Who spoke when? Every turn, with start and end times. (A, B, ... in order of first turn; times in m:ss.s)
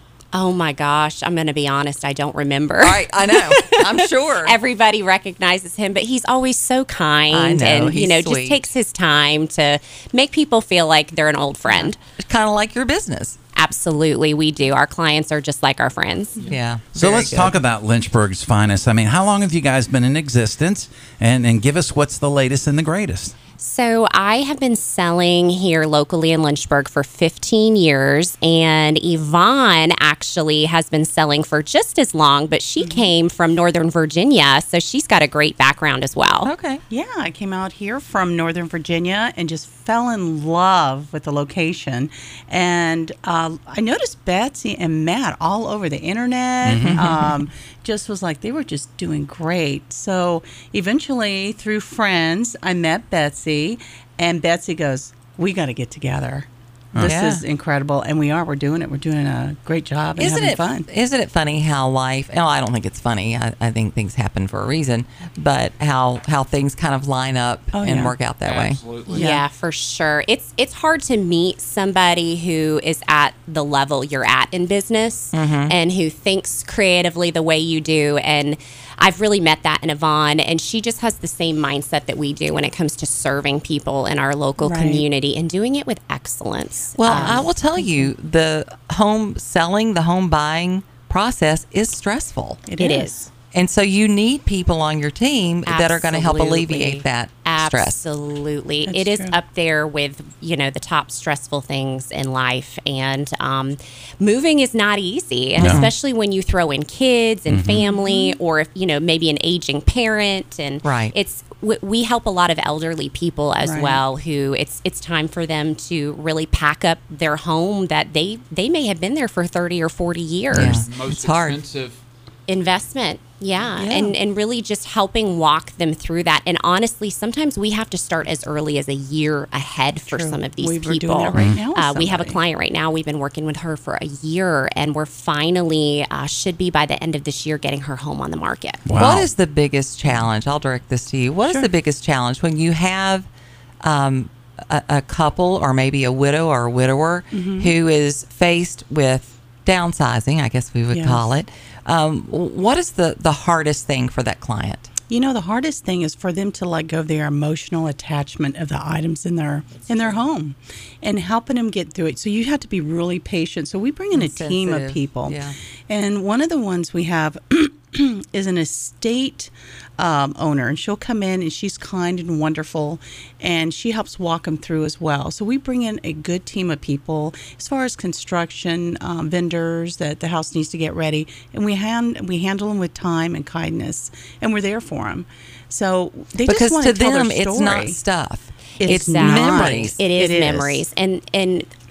0:00.3-0:12.0 A
0:02.8-0:04.6 B
0:07.3-0:08.6 B
0:12.2-0:13.4 B
0:13.6-0:16.5 A
0:16.4-0:17.6 B
0:16.9-0:23.4 C
0:23.6-0:36.5 A
0:32.8-0:33.1 D
0:36.4-0:36.8 B
0:36.9-1:00.9 D
0:46.6-0:47.1 C
0:46.8-0:47.3 B
0:57.0-0:57.4 B
1:00.2-1:08.8 B
1:07.7-1:08.2 D
1:08.4-1:09.2 E
1:09.1-1:27.5 A
1:09.1-1:09.4 D
1:15.3-1:15.8 B
1:24.6-1:25.1 D
1:27.0-1:32.7 B
1:27.1-1:28.1 D
1:32.7-1:33.3 D
1:32.8-1:33.2 A
1:33.5-1:38.0 B
1:35.7-2:00.8 A
1:38.9-1:39.4 D
1:45.6-1:45.9 C
1:45.6-1:45.9 B
1:47.5-1:47.8 C
1:47.7-1:48.4 D
1:50.8-1:51.1 B
1:53.6-1:54.0 D
2:00.5-2:01.6 B
2:00.6-2:02.0 E
2:02.5-2:18.9 A
2:03.6-2:04.2 D
2:10.1-2:12.4 D
2:18.9-2:19.3 C
2:19.0-2:23.3 B
2:23.8-2:34.9 B
2:27.3-2:27.8 D
2:30.9-2:31.3 D
2:35.1-3:08.0 D
2:44.1-2:45.6 B
3:06.4-3:10.0 B
3:08.8-3:10.9 D
3:08.8-3:11.7 A